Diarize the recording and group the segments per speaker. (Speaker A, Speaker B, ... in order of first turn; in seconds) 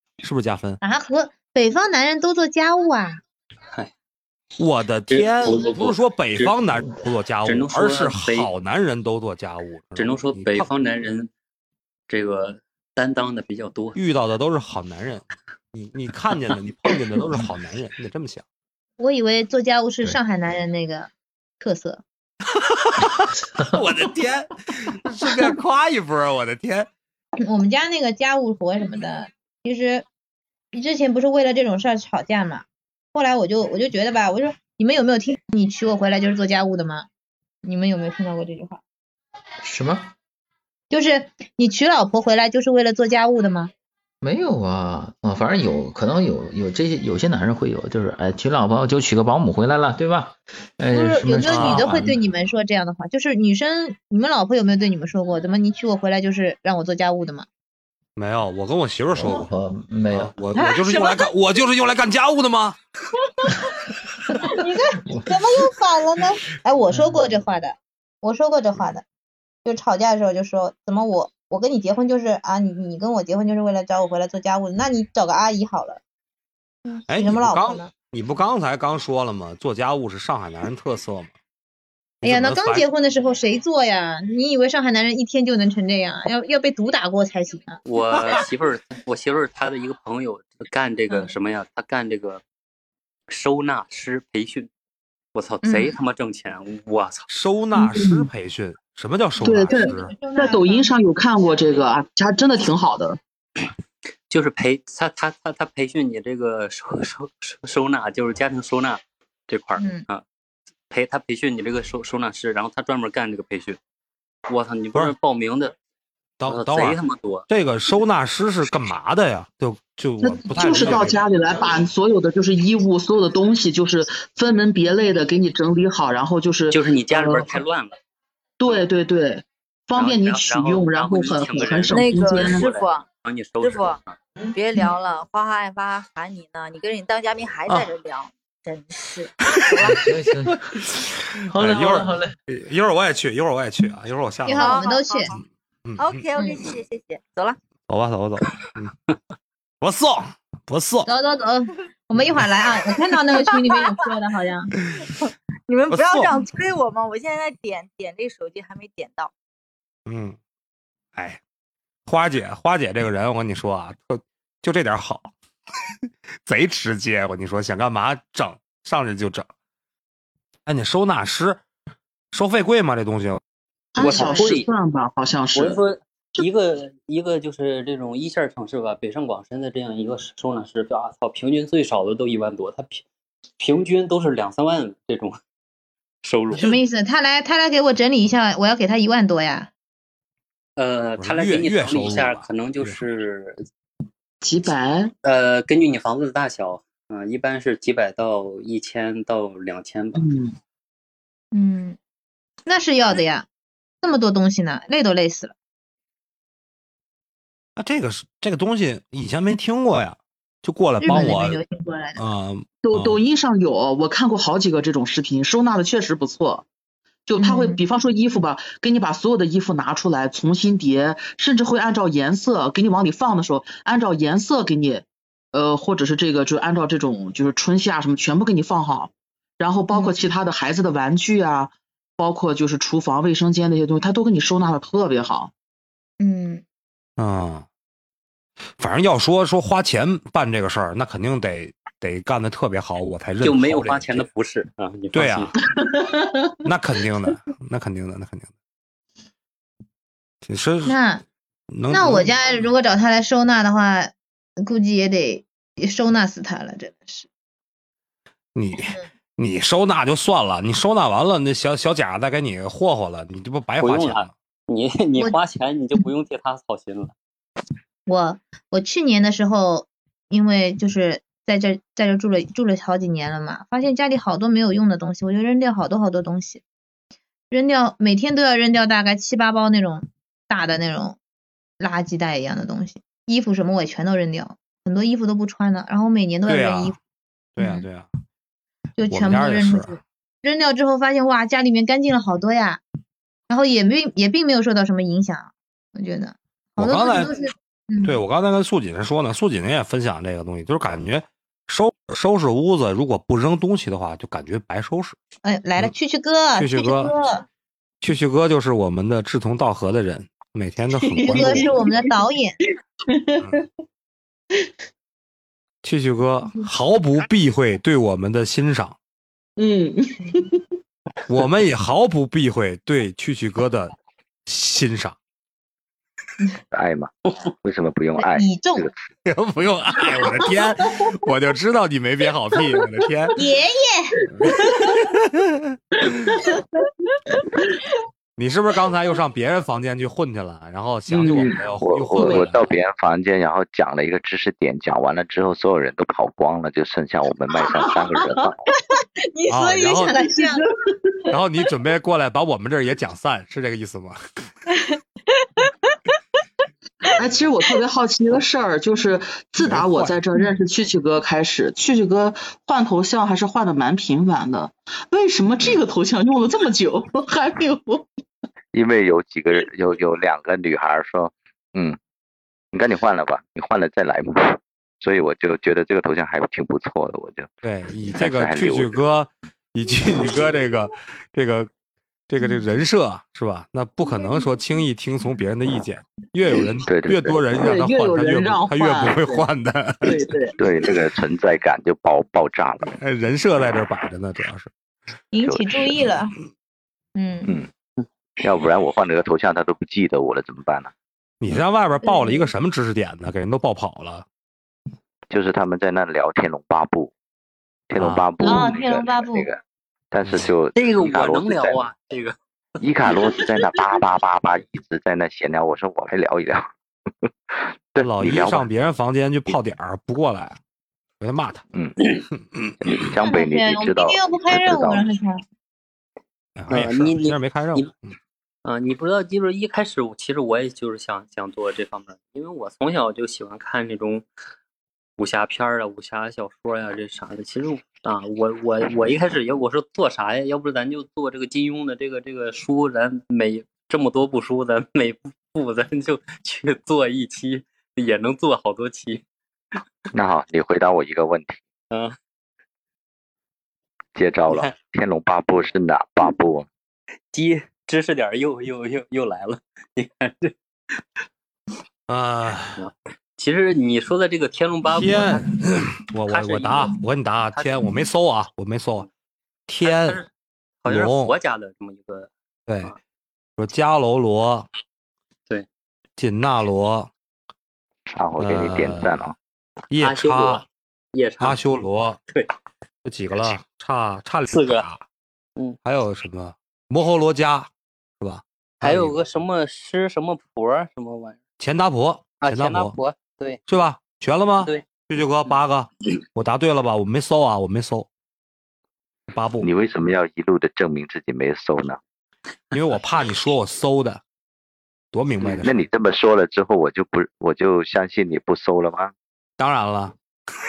Speaker A: 0.2-0.8, 4.6-10.7, 13.9-18.4, 22.5-26.9, 51.4-52.0, 58.1-59.5, 60.1-62.8, 77.1-81.3, 82.2-82.9, 97.3-100.2, 116.4-121.2, 141.5-144.9, 145.8-146.2, 147.9-148.9, 149.8-151.1, 155.9-156.3, 160.1-160.4, 161.1-161.4, 162.1-165.3, 166.4-169.5, 170.7-171.6, 172.3-173.4, 191.2-193.0, 207.8-211.6, 212.2-213.2, 237.2-237.7, 238.8-244.2, 245.1-245.5, 246.6-248.5, 250.4-251.0, 251.7-252.4, 258.5-264.3, 286.5-286.9, 287.6-288.1, 289.1-290.0, 296.8-297.3, 298.0-305.1, 306.6-307.1, 308.0-311.7, 315.8-318.9, 321.3-323.9, 324.4-325.1, 329.2-333.4, 334.4-335.8, 338.4-342.6, 349.5-350.1, 351.3-354.2, 359.6-360.2, 377.6-381.7, 382.3-390.2, 392.9-394.7, 401.4-404.2, 407.9-408.6, 410.2-410.5, 418.0-420.6, 421.2-421.6, 422.4-422.7, 426.6-427.9, 462.1-462.8, 464.9-469.1, 469.7-470.2, 470.9-471.3, 472.7-472.9, 473.6-474.7, 476.2-477.1, 478.4-479.1, 479.9-480.6, 481.4-482.2, 483.0-485.0, 485.8-487.7, 488.2-489.2, 491.6-492.9, 493.7-498.1, 499.3-499.7, 502.7-504.2, 505.1-505.9, 509.6-510.1
Speaker B: 0.8-3.2, 19.0-22.0, 27.4-30.1, 30.7-37.1, 37.6-38.8, 40.9-43.7, 50.9-57.5, 60.5-61.3, 64.4-69.0, 69.6-76.0, 76.8-77.9, 82.2-88.4, 95.6-95.9, 99.7-100.9, 109.8-110.0, 144.4-145.3, 146.3-146.6, 151.1-154.7, 174.0-174.5, 186.5-189.7, 201.5-202.0, 202.7-203.5, 204.0-205.5, 211.0-212.2, 217.4-217.8, 229.9-230.2, 236.2-236.6, 250.8-251.2, 251.9-257.3, 268.1-276.6, 277.5-281.2, 281.8-287.0, 287.6-287.9, 289.0-292.8, 293.5-298.2, 305.4-307.4, 311.2-312.6, 328.2-328.9, 333.3-334.8, 349.3-350.6, 357.1-357.8, 395.3-396.3, 397.1-397.6, 402.0-402.5, 408.4-409.5, 423.2-425.4
Speaker C: 5.1-6.5, 7.4-8.5, 9.9-11.3, 12.1-14.0, 87.8-92.4, 93.3-94.7, 95.3-97.3, 104.3-110.2, 110.9-113.8, 114.5-115.7, 116.4-117.5, 126.7-128.0, 129.9-134.2, 174.0-174.7, 175.5-183.0, 183.6-185.4, 186.2-186.7, 190.8-193.6, 195.2-200.2, 243.4-245.5, 263.8-267.1, 410.7-412.3, 426.7-427.9, 428.6-434.2, 435.2-449.2, 451.9-452.1, 457.3-461.0, 462.8-465.5, 466.3-467.0, 467.5-467.9, 469.8-470.3, 470.8-472.3, 480.0-481.6, 484.5-484.9, 488.8-491.4, 492.4-493.6, 494.6-494.9
Speaker D: 39.6-40.1, 44.2-52.2, 59.1-60.4, 65.0-65.4, 66.9-67.3, 139.8-140.8, 141.4-142.3
Speaker E: 97.8-98.3, 99.4-103.2, 120.2-127.6, 128.6-132.7, 173.9-175.8, 194.4-195.1, 200.1-200.5, 212.8-216.7, 217.2-235.5, 245.6-246.5, 311.0-311.8, 313.1-313.6, 319.6-320.6, 336.1-336.4, 341.1-341.6, 342.1-342.5, 350.4-351.3, 357.2-368.1, 387.6-389.5, 390.0-390.5
Speaker F: 131.9-133.0, 133.6-134.0, 134.5-140.1, 144.6-145.4, 146.0-147.6, 155.7-159.3
Speaker G: 326.7-327.1, 327.6-328.9, 341.4-348.6, 368.7-372.0, 372.7-377.5, 378.1-379.0, 380.2-380.5, 386.8-387.4, 390.6-392.9, 395.4-396.0, 398.4-400.9, 405.3-407.1, 407.9-409.6, 410.1-411.8, 412.8-416.7, 417.5-418.7, 422.8-425.1, 450.1-451.6, 454.1-456.7, 478.1-479.3, 499.6-502.0, 505.4-509.1